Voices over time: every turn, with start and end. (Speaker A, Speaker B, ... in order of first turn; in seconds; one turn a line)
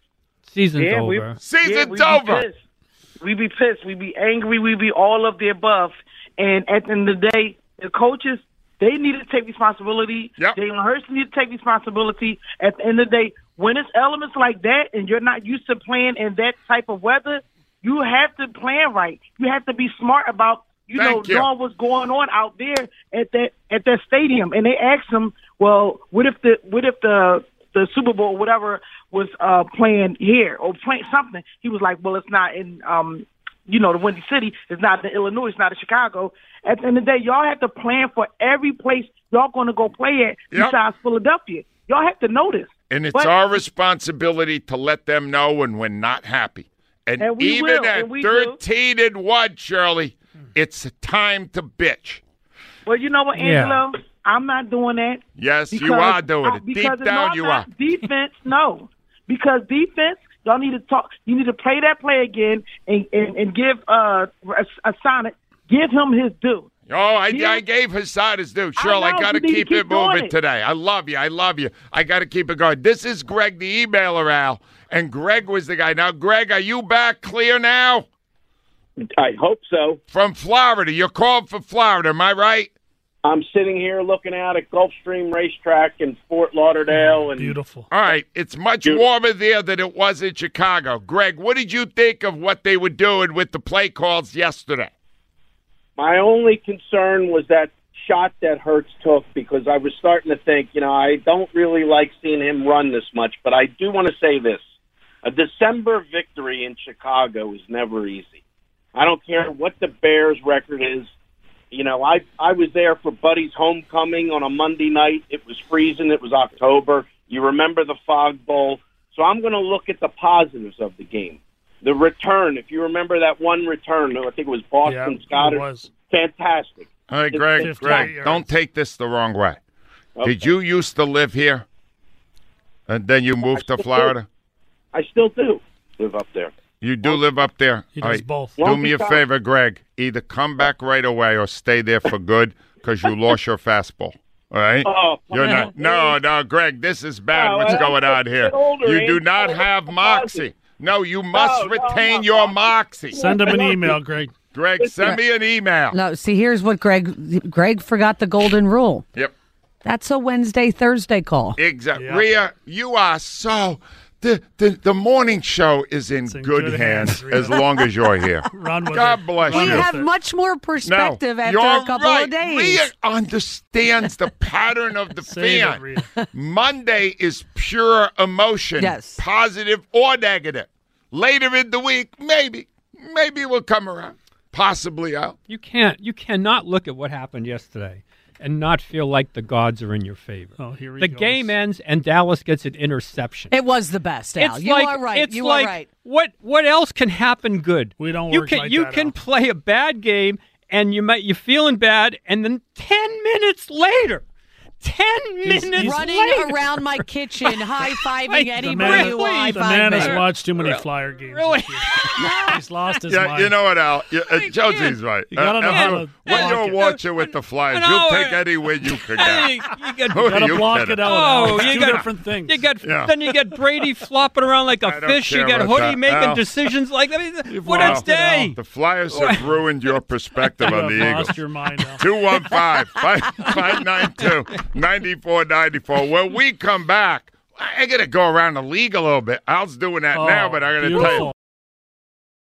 Speaker A: 0.5-1.4
Speaker B: 0.8-2.5
Speaker C: 1.4-2.5
Speaker D: 1.8-2.4
Speaker D: 3.2-43.3
Speaker C: 20.9-21.5
Speaker C: 42.9-52.2
Speaker D: 47.2-48.6
Speaker D: 52.9-66.7
Speaker A: 53.3-53.8
Speaker C: 55.4-57.7
Speaker C: 66.9-78.1
Speaker D: 67.3-67.6
Speaker D: 68.8-70.3
Speaker B: 79.2-80.0
Speaker C: 80.1-82.7
Speaker B: 83.2-87.5
Speaker E: 87.3-87.9
Speaker C: 87.9-94.9
Speaker B: 96.0-104.6
Speaker B: 105.2-108.4
Speaker B: 108.9-111.1
Speaker B: 111.7-128.1
Speaker E: 124.8-125.9
Speaker C: 127.1-129.6
Speaker E: 127.6-128.5
Speaker B: 130.2-130.4
Speaker C: 130.2-131.7
Speaker C: 132.9-134.2
Speaker B: 133.5-134.1
Speaker B: 134.9-136.5
Speaker C: 136.8-153.2
Speaker E: 137.9-138.6
Speaker B: 138.6-139.2
Speaker B: 144.8-146.1
Speaker B: 147.3-150.5
Speaker B: 151.3-153.9
Speaker E: 153.1-154.3
Speaker C: 154.5-155.9
Speaker F: 155.9-159.1
Speaker F: 159.8-161.6
Speaker C: 161.6-169.9
Speaker E: 161.9-162.2
Speaker E: 166.3-167.9
Speaker E: 168.5-170.1
Speaker F: 169.4-172.9
Speaker C: 170.8-185.3
Speaker E: 175.2-176.1
Speaker F: 178.8-179.2
Speaker A: 185.5-193.6
Speaker E: 190.6-191.6
Speaker F: 193.5-195.9
Speaker A: 194.3-204.2
Speaker E: 198.0-199.2
Speaker A: 204.8-212.5
Speaker E: 205.4-206.1
Speaker F: 205.7-210.2
Speaker E: 208.6-213.6
Speaker F: 212.2-212.6
Speaker C: 213.1-221.1
Speaker A: 214.5-214.9
Speaker E: 215.3-216.9
Speaker A: 215.6-228.5
Speaker E: 220.1-222.7
Speaker C: 222.8-223.1
Speaker C: 224.8-226.5
Speaker E: 227.4-228.5
Speaker C: 227.7-231.3
Speaker A: 229.1-229.4
Speaker E: 230.6-232.1
Speaker C: 232.0-241.3
Speaker E: 240.1-241.3